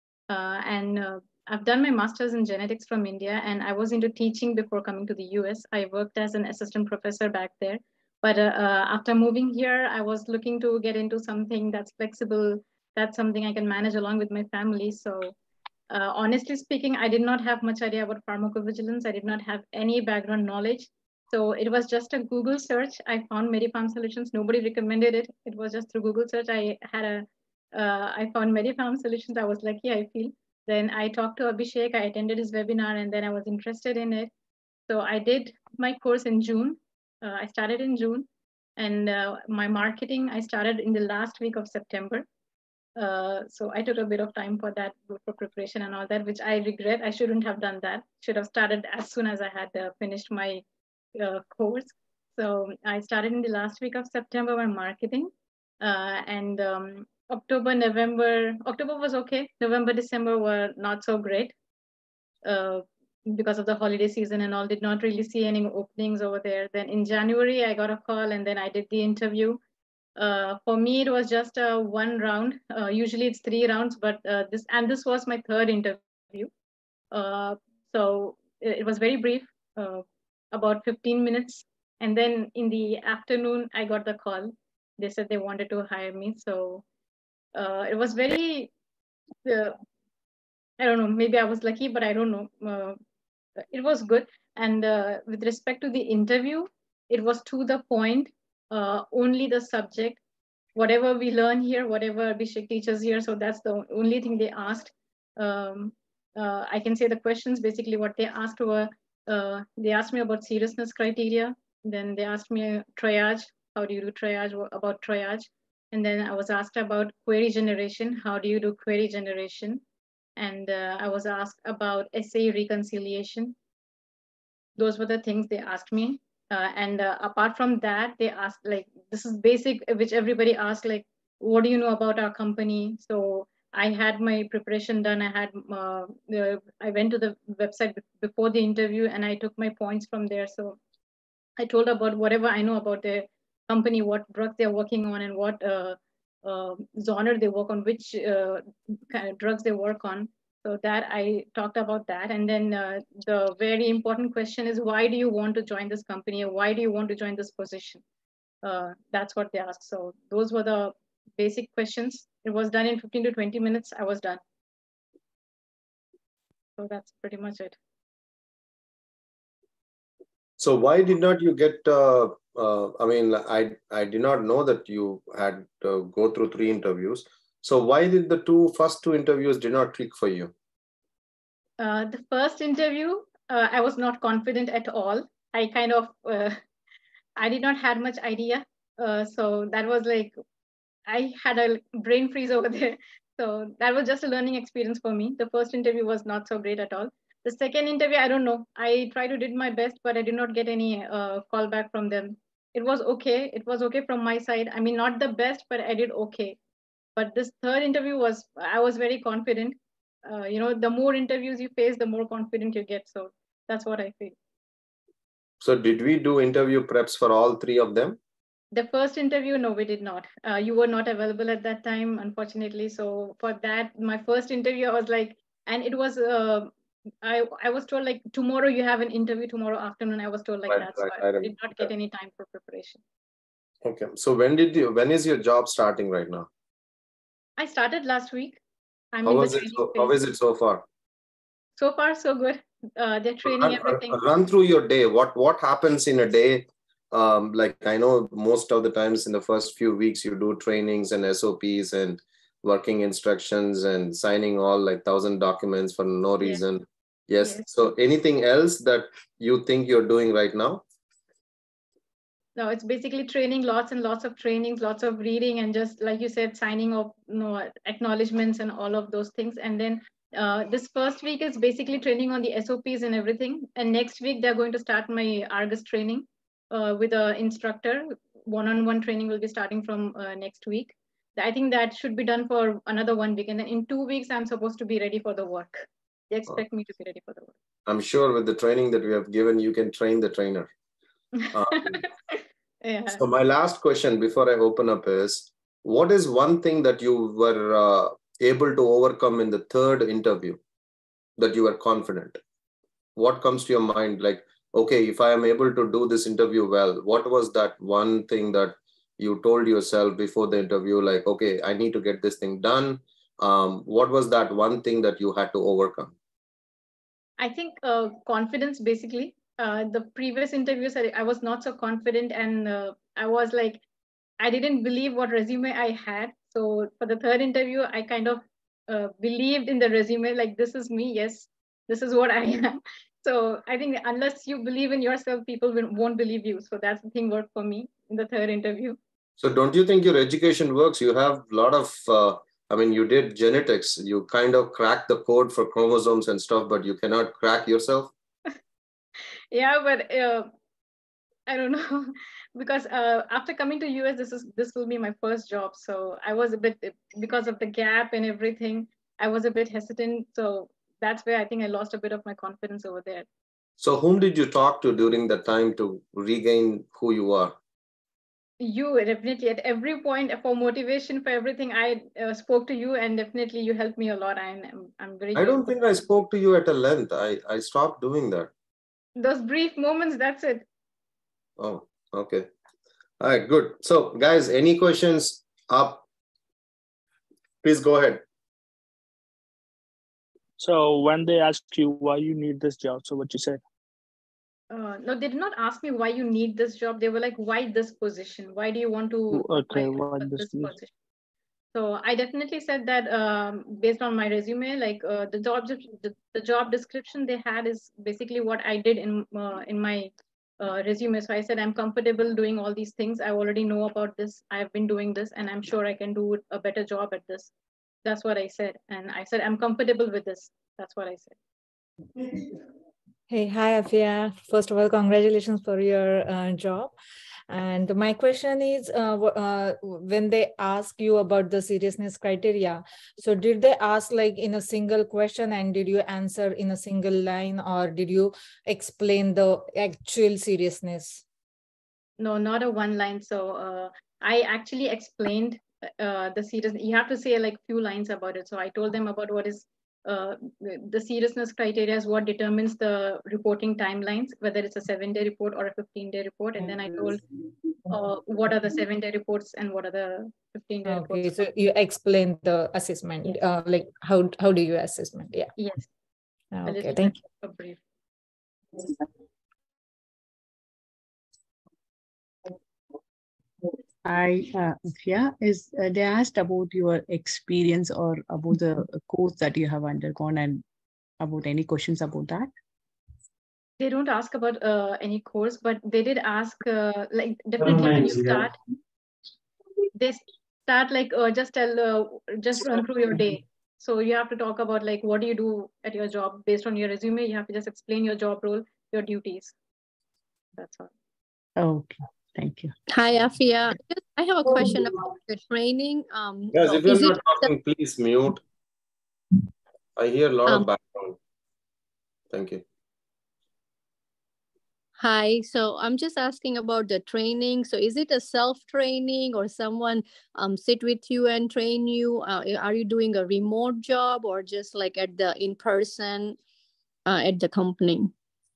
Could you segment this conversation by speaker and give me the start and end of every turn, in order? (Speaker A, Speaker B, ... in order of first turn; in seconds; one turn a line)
Speaker A: 0.3-15.4
Speaker A: 15.9-34.3
Speaker A: 34.9-42.2
Speaker A: 43.0-50.6
Speaker A: 51.1-61.5
Speaker A: 62.4-69.6
Speaker A: 70.2-76.5
Speaker A: 77.1-86.8
Speaker A: 87.5-88.7
Speaker A: 89.4-89.8
Speaker A: 90.8-93.0
Speaker A: 93.7-100.2
Speaker A: 100.7-119.8
Speaker A: 120.4-123.5
Speaker A: 124.8-140.8
Speaker A: 141.6-158.0
Speaker A: 158.6-164.4
Speaker A: 166.8-167.8
Speaker B: 170.6-180.5
Speaker A: 181.8-186.6
Speaker A: 187.4-190.3
Speaker A: 191.1-206.6
Speaker A: 207.2-214.3
Speaker B: 215.6-218.2
Speaker A: 218.7-226.7
Speaker A: 227.2-233.0
Speaker B: 230.7-231.9
Speaker B: 233.8-236.5
Speaker A: 237.6-238.6
Speaker A: 239.1-240.2
Speaker B: 239.2-240.8
Speaker A: 241.8-244.2
Speaker B: 243.5-260.8
Speaker A: 257.4-257.7
Speaker A: 262.6-287.5
Speaker B: 287.9-290.7
Speaker B: 291.5-292.1
Speaker A: 292.8-293.2
Speaker B: 293.1-300.6
Speaker B: 301.4-302.4
Speaker B: 303.2-316.1
Speaker A: 317.4-323.8
Speaker A: 324.4-339.0
Speaker B: 339.4-348.1
Speaker A: 349.5-350.5
Speaker A: 351.5-363.2
Speaker B: 363.8-367.6
Speaker A: 368.6-375.8
Speaker B: 375.4-378.5
Speaker A: 379.2-380.7
Speaker B: 381.6-382.5
Speaker B: 383.2-386.0
Speaker B: 387.6-388.2
Speaker C: 390.6-393.6
Speaker A: 394.7-400.9
Speaker C: 399.3-400.8
Speaker A: 401.7-417.5
Speaker A: 418.0-421.4
Speaker D: 423.3-426.9
Speaker D: 427.5-441.2
Speaker A: 442.2-457.2
Speaker A: 457.9-461.4
Speaker D: 460.9-465.5
Speaker A: 465.6-465.9
Speaker D: 466.5-467.2
Speaker A: 466.6-467.8
Speaker E: 474.1-480.6
Speaker E: 481.2-482.5
Speaker A: 483.8-488.6
Speaker A: 489.9-499.5
Speaker A: 500.6-500.9
Speaker E: 501.6-503.2
Speaker F: 502.9-507.5
Speaker B: 506.5-508.4
Speaker B: 510.0-511.2
Speaker B: 512.3-512.6
Speaker F: 515.0-526.4
Speaker F: 527.0-528.1